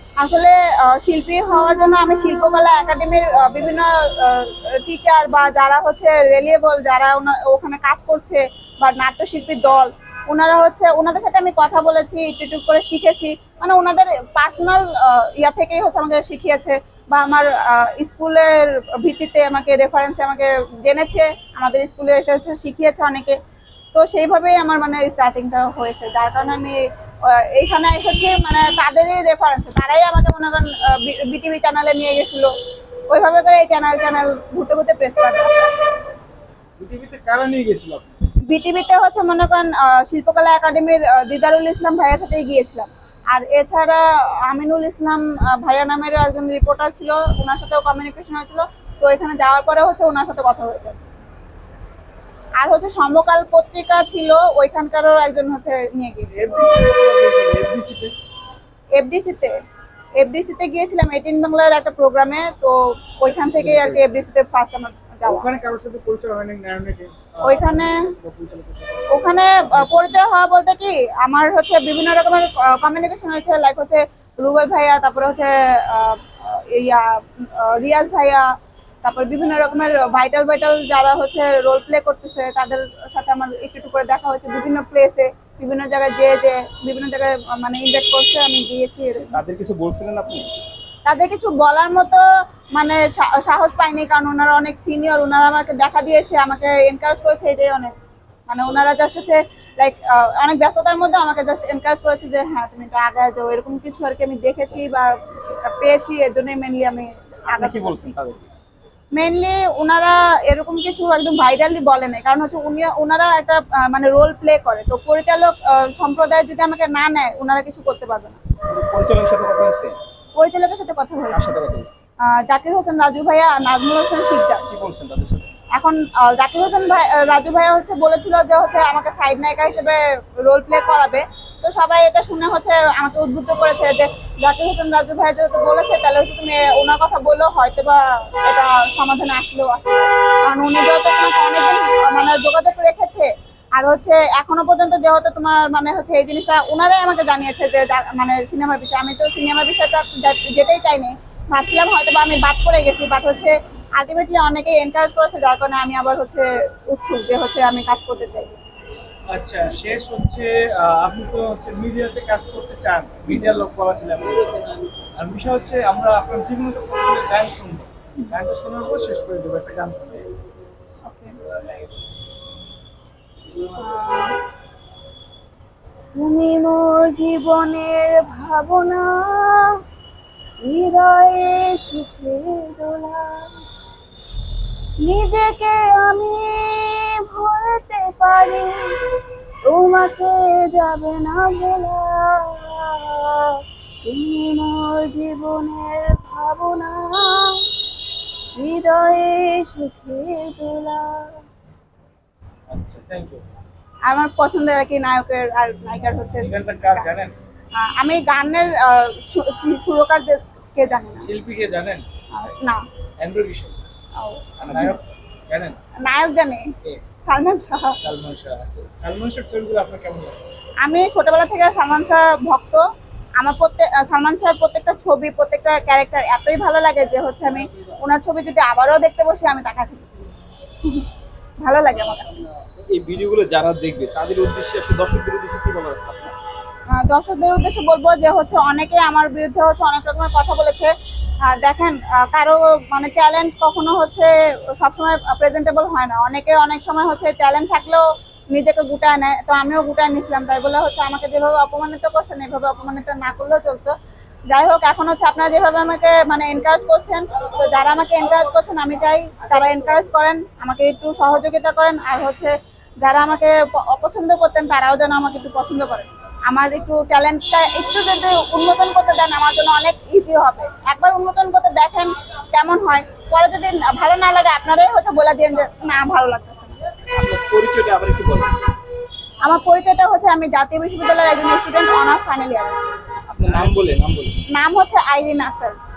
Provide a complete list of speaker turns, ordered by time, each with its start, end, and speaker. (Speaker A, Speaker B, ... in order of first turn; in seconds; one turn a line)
Speaker A: 0.2-23.4
Speaker A: 23.9-32.5
Speaker A: 33.1-35.7
Speaker B: 36.8-38.1
Speaker A: 38.5-51.0
Speaker A: 52.6-56.3
Speaker B: 56.3-58.1
Speaker A: 58.9-59.6
Speaker A: 60.2-65.4
Speaker B: 63.3-64.1
Speaker B: 65.2-70.2
Speaker A: 67.4-68.0
Speaker A: 69.1-89.4
Speaker C: 89.3-90.5
Speaker A: 91.0-97.9
Speaker A: 98.5-108.0
Speaker C: 107.5-108.5
Speaker A: 109.1-118.4
Speaker C: 118.7-119.9
Speaker A: 120.3-121.5
Speaker C: 121.3-122.0
Speaker A: 122.2-124.7
Speaker C: 124.7-125.5
Speaker A: 125.7-158.5
Speaker B: 159.3-164.4
Speaker B: 165.2-170.2
Speaker A: 171.0-171.3
Speaker A: 173.7-174.3
Speaker A: 176.1-179.8
Speaker A: 180.6-183.6
Speaker A: 185.0-189.0
Speaker A: 189.6-197.7
Speaker A: 198.6-201.4
Speaker B: 202.7-203.4
Speaker A: 204.0-207.0
Speaker B: 206.4-207.3
Speaker A: 207.7-211.3
Speaker B: 211.2-212.0
Speaker A: 212.3-212.8
Speaker B: 213.2-213.8
Speaker A: 214.2-215.0
Speaker B: 214.6-215.8
Speaker A: 216.0-216.7
Speaker A: 217.2-218.0
Speaker B: 218.0-220.4
Speaker A: 220.8-222.9
Speaker A: 223.4-230.1
Speaker A: 231.6-232.4
Speaker C: 232.9-236.3
Speaker A: 236.9-240.9
Speaker A: 241.4-253.9
Speaker A: 254.5-276.8
Speaker C: 277.1-278.6
Speaker A: 279.4-282.8
Speaker C: 283.3-284.4
Speaker B: 283.4-283.7
Speaker A: 284.5-285.8